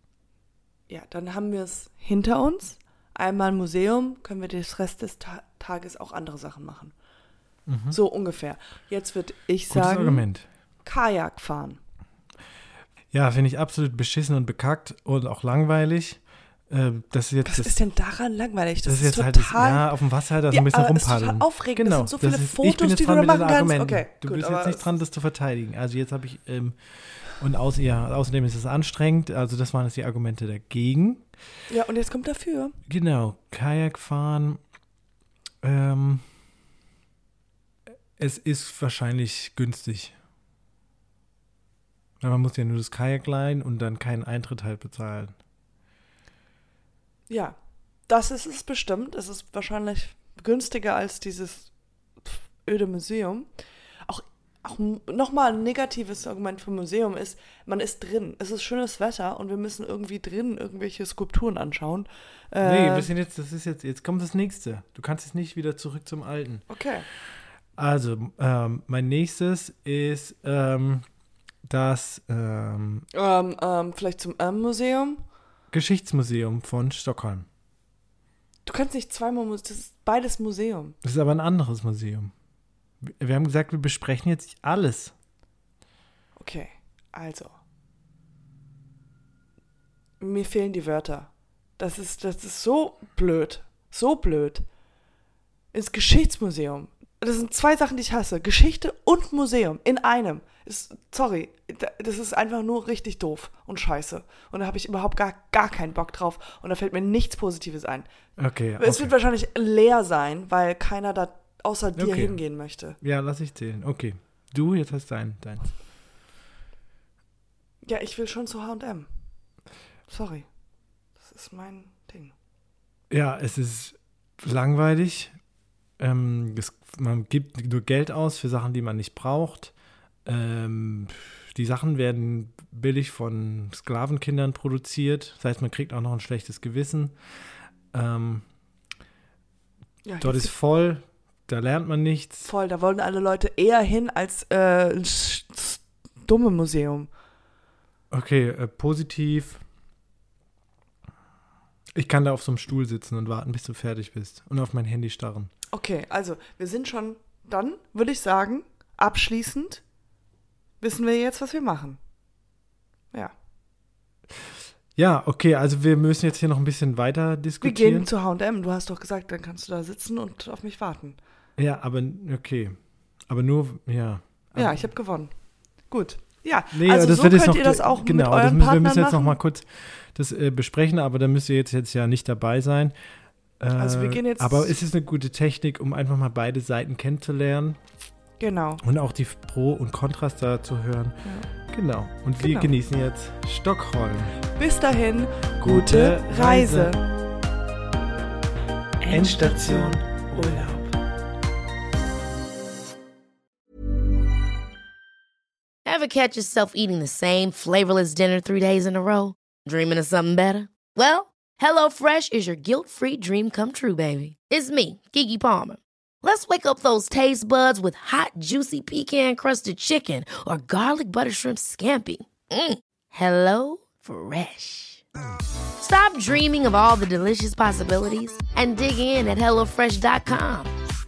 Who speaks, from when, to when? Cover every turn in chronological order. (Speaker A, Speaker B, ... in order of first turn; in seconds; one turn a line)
Speaker A: 0.9-6.9
Speaker B: 7.7-8.0
Speaker A: 7.9-10.3
Speaker B: 9.7-10.5
Speaker A: 10.8-11.8
Speaker B: 13.1-17.8
Speaker A: 17.4-24.9
Speaker B: 18.9-26.8
Speaker B: 27.3-31.2
Speaker A: 31.7-32.8
Speaker B: 32.9-34.6
Speaker B: 35.6-36.2
Speaker B: 38.2-40.1
Speaker B: 42.2-45.4
Speaker A: 47.3-47.6
Speaker A: 48.1-51.7
Speaker A: 52.2-53.5
Speaker A: 54.0-63.1
Speaker B: 62.6-66.7
Speaker A: 66.7-67.1
Speaker B: 67.8-71.1
Speaker B: 71.7-73.1
Speaker A: 73.1-75.2
Speaker B: 75.7-77.5
Speaker A: 78.7-81.0
Speaker B: 81.0-82.3
Speaker B: 83.0-85.1
Speaker A: 86.4-87.5
Speaker A: 90.2-94.7
Speaker A: 95.7-108.1
Speaker B: 108.4-109.2
Speaker A: 108.8-113.0
Speaker B: 112.0-112.4
Speaker B: 113.0-115.7
Speaker A: 117.8-119.1
Speaker A: 120.1-120.5
Speaker A: 121.2-122.3
Speaker B: 123.1-125.3
Speaker B: 126.0-129.7
Speaker B: 130.3-137.1
Speaker B: 137.9-138.4
Speaker A: 140.1-140.6
Speaker B: 140.2-142.5
Speaker A: 142.4-147.1
Speaker B: 148.1-149.6
Speaker B: 151.9-155.5
Speaker A: 155.7-159.8
Speaker A: 160.8-162.0
Speaker B: 165.0-168.1
Speaker A: 167.6-171.2
Speaker B: 171.6-172.8
Speaker B: 173.3-174.8
Speaker A: 174.6-175.3
Speaker A: 175.9-179.4
Speaker B: 176.7-182.9
Speaker B: 183.6-187.8
Speaker A: 183.8-184.8
Speaker A: 188.4-188.8
Speaker B: 188.8-191.2
Speaker B: 191.7-194.4
Speaker A: 192.4-192.7
Speaker A: 194.5-197.0
Speaker B: 195.6-197.0
Speaker A: 199.0-200.7
Speaker B: 199.1-200.9
Speaker C: 205.8-225.0
Speaker C: 225.8-230.7